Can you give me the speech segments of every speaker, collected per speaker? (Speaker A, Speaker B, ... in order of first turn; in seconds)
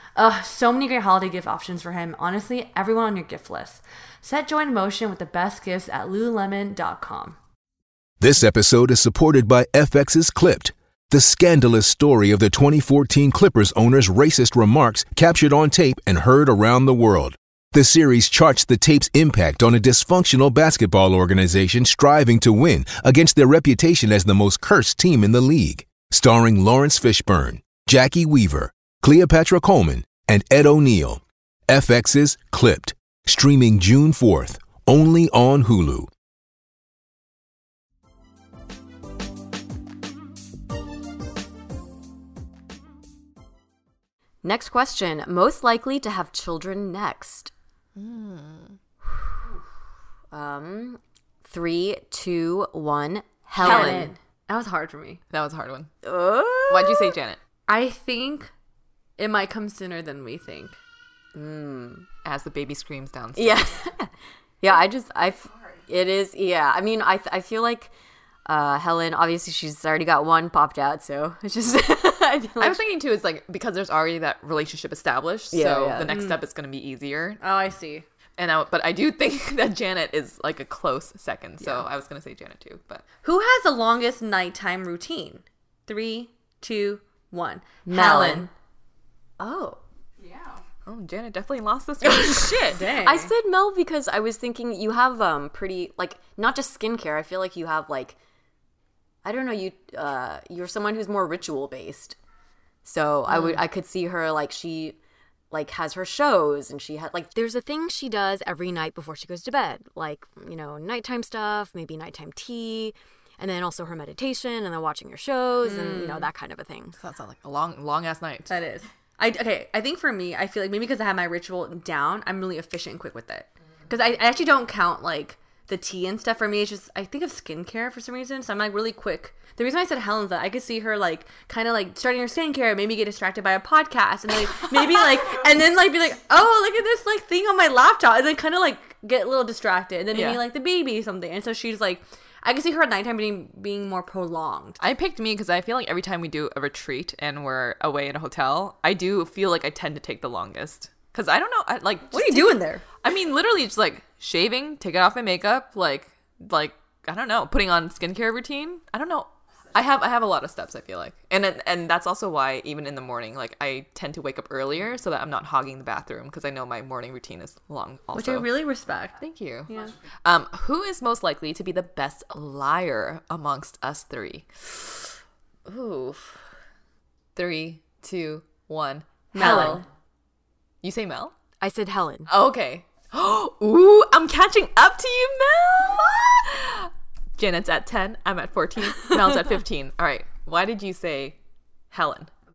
Speaker A: 0.2-7.4, 53.6-55.2, 57.7-58.5, 59.2-60.8, 77.4-78.1, 83.2-88.5, 92.7-93.3, 115.6-116.3, 118.5-144.8, 152.1-152.8, 168.1-169.1, 179.3-179.8
Speaker B: 8.2-36.1
Speaker C: 44.4-47.5, 50.3-54.1, 56.0-57.2, 61.3-62.1, 63.4-67.9, 68.5-72.8, 75.5-76.1, 87.9-88.5, 89.4-89.8, 92.0-92.4, 93.0-98.2, 99.2-102.2, 102.8-105.0, 105.5-117.0, 179.4-179.8, 181.6-182.3
Speaker D: 48.0-48.8, 53.6-54.1, 55.3-55.9, 56.7-57.4, 62.2-63.9, 72.6-77.4, 78.4-83.0, 90.9-92.8, 117.0-118.5, 140.1-140.4, 144.8-168.5, 169.2-175.2, 175.7-176.4, 177.4-179.8, 180.8-181.3, 182.3-191.4, 191.9-192.3